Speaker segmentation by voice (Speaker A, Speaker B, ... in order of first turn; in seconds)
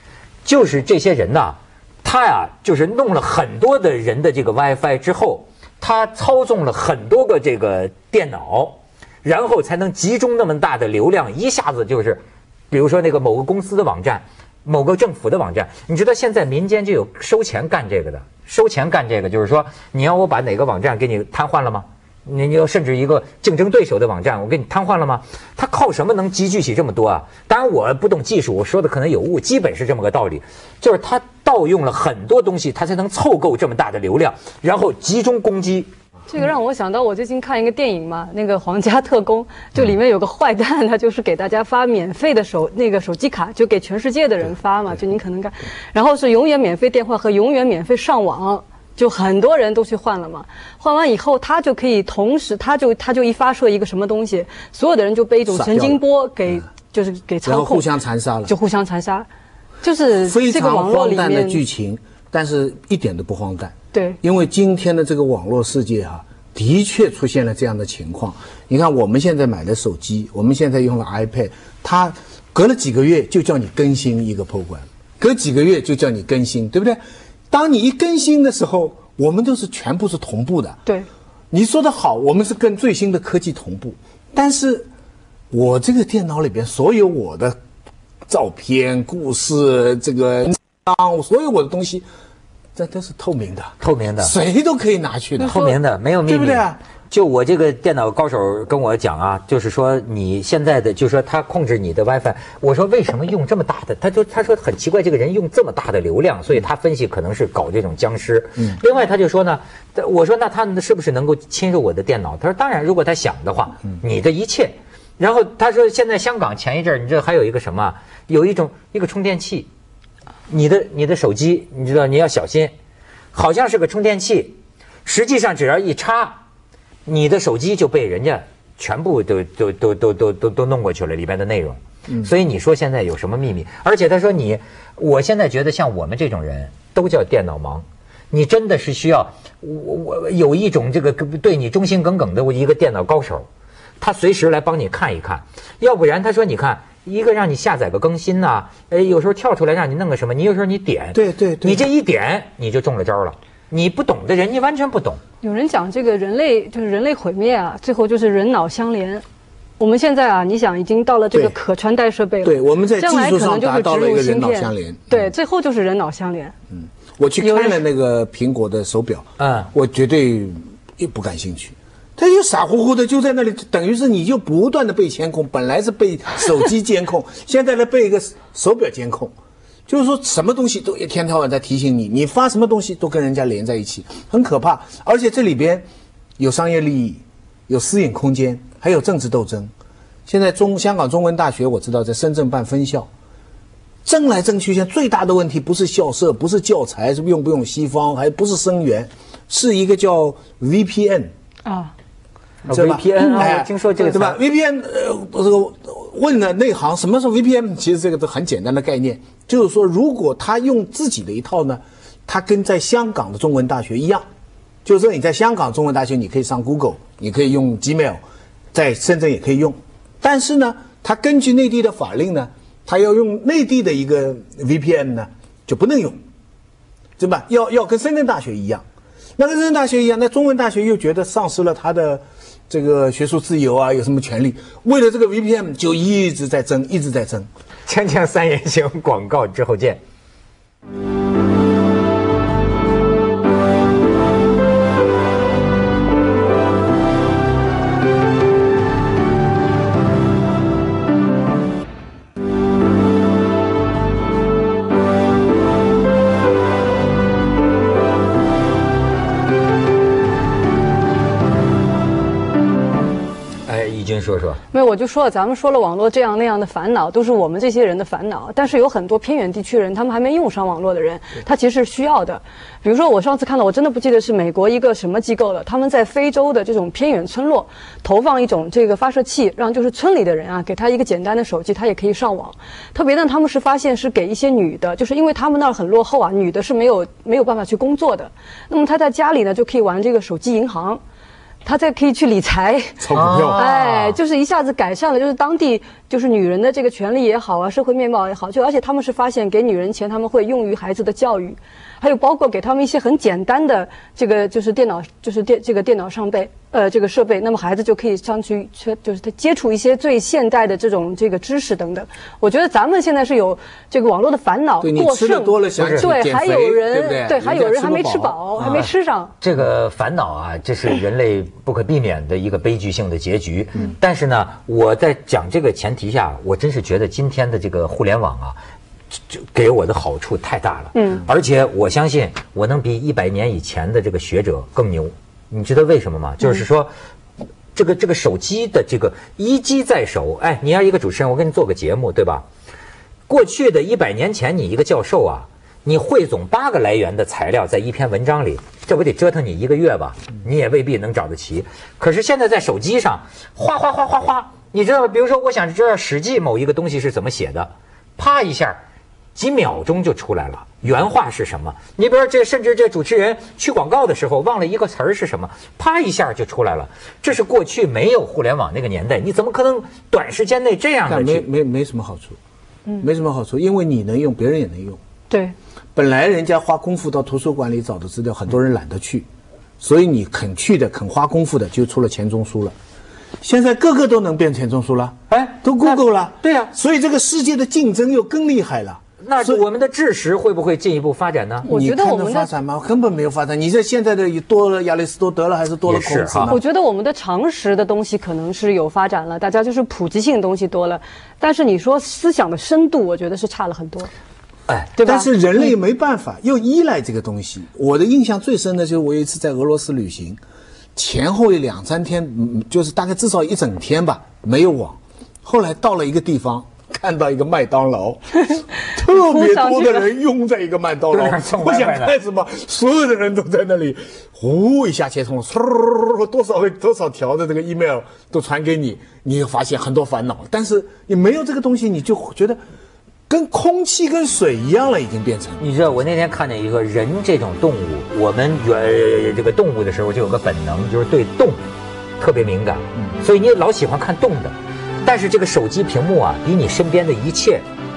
Speaker A: 0.5-35.9, 93.8-94.3, 95.4-119.7, 120.5-122.7, 123.3-126.4, 127.1-143.5, 144.0-155.2, 169.4-169.7, 202.7-204.4, 237.9-240.0, 263.7-264.6, 293.1-294.2, 315.8-316.1, 318.6-328.6, 329.1-336.9, 337.7-342.4, 343.3-358.8, 359.4-371.4, 385.3-386.7, 389.2-391.7, 395.9-396.6, 421.1-422.2, 435.6-441.6, 442.2-447.6
Speaker B: 36.3-57.9, 58.5-59.3, 59.8-61.6, 63.9-64.2, 155.4-159.2, 159.8-166.6, 167.4-167.8, 201.7-201.9, 264.7-291.0, 291.6-293.1, 293.6-319.3, 330.9-331.2, 375.3-375.6, 391.7-392.5, 396.5-404.1, 405.0-405.3, 418.5-420.1
Speaker C: 55.5-56.0, 57.5-58.5, 60.2-80.8, 81.5-84.9, 85.5-87.6, 88.3-92.1, 92.8-96.8, 151.2-151.9, 162.4-165.3, 166.7-179.3, 179.9-185.9, 186.4-189.7, 190.3-193.1, 194.1-201.3, 202.7-214.3, 214.8-218.2, 218.7-226.2, 227.2-228.8, 229.4-237.5, 293.0-293.6, 314.8-318.7, 371.1-372.4, 373.0-375.0, 375.9-379.3, 379.8-382.8, 383.4-389.6, 391.6-396.6, 405.0-410.4, 410.9-432.6, 433.3-435.6